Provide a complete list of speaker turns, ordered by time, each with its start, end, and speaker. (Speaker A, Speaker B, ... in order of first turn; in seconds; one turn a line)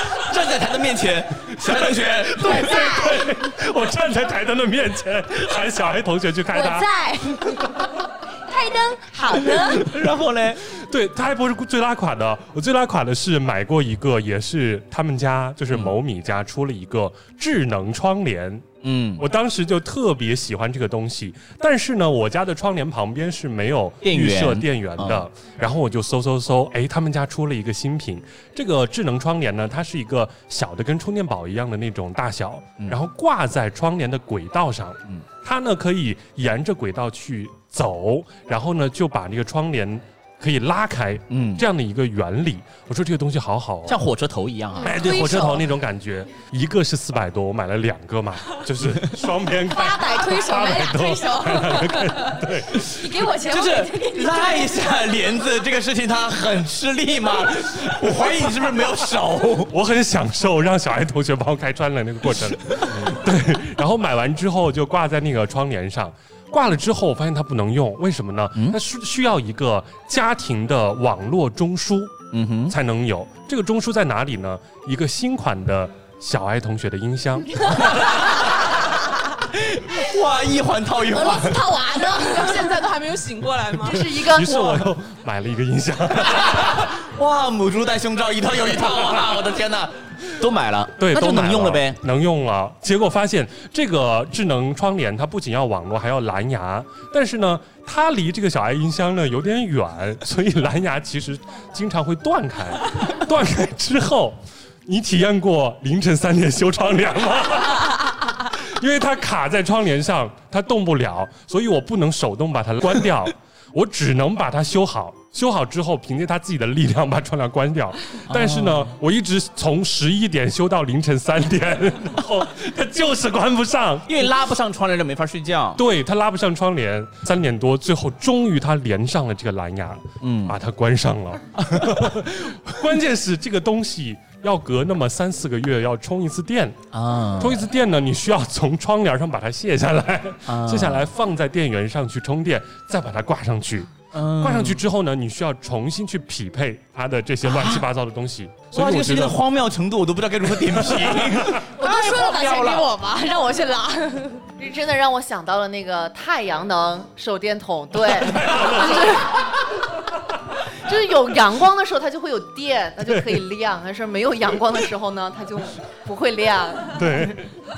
Speaker A: 0.2-2.8
Speaker B: 1.6-6.9
Speaker C: 2.4-3.3
Speaker C: 6.5-7.9
Speaker C: 8.5-9.9
Speaker A: 9.7-10.6
Speaker B: 10.8-18.6
Speaker A: 18.8-19.2
Speaker B: 19.2-44.0
Speaker A: 24.0-25.2
Speaker A: 41.3-41.6
Speaker A: 43.9-45.1
Speaker C: 44.8-45.6
Speaker B: 44.8-52.9
Speaker A: 48.8-49.1
Speaker C: 49.6-54.9
Speaker A: 53.4-59.7
Speaker B: 59.7-78.2
Speaker A: 62.7-63.1
Speaker A: 72.3-72.7
Speaker A: 77.8-78.7
Speaker A: 79.5-81.7
Speaker C: 81.2-82.7
Speaker D: 81.9-84.5
Speaker B: 83.9-86.8
Speaker E: 83.9-84.6
Speaker A: 86.3-92.0
Speaker B: 91.0-108.1
Speaker B: 108.6-124.3
Speaker A: 118.3-118.9
Speaker A: 124.1-125.8
Speaker B: 125.8-136.8
Speaker A: 130.2-130.6
Speaker A: 131.7-132.0
Speaker A: 136.9-137.6
Speaker B: 137.4-149.4
Speaker A: 140.5-141.1
Speaker A: 144.1-144.8
Speaker A: 147.4-147.9
Speaker A: 148.7-152.8
Speaker B: 150.7-151.6
Speaker C: 151.8-154.4
Speaker E: 151.8-152.8
Speaker E: 154.6-159.4
Speaker B: 158.3-159.1
Speaker E: 160.9-167.3
Speaker B: 163.1-163.4
Speaker B: 166.9-167.4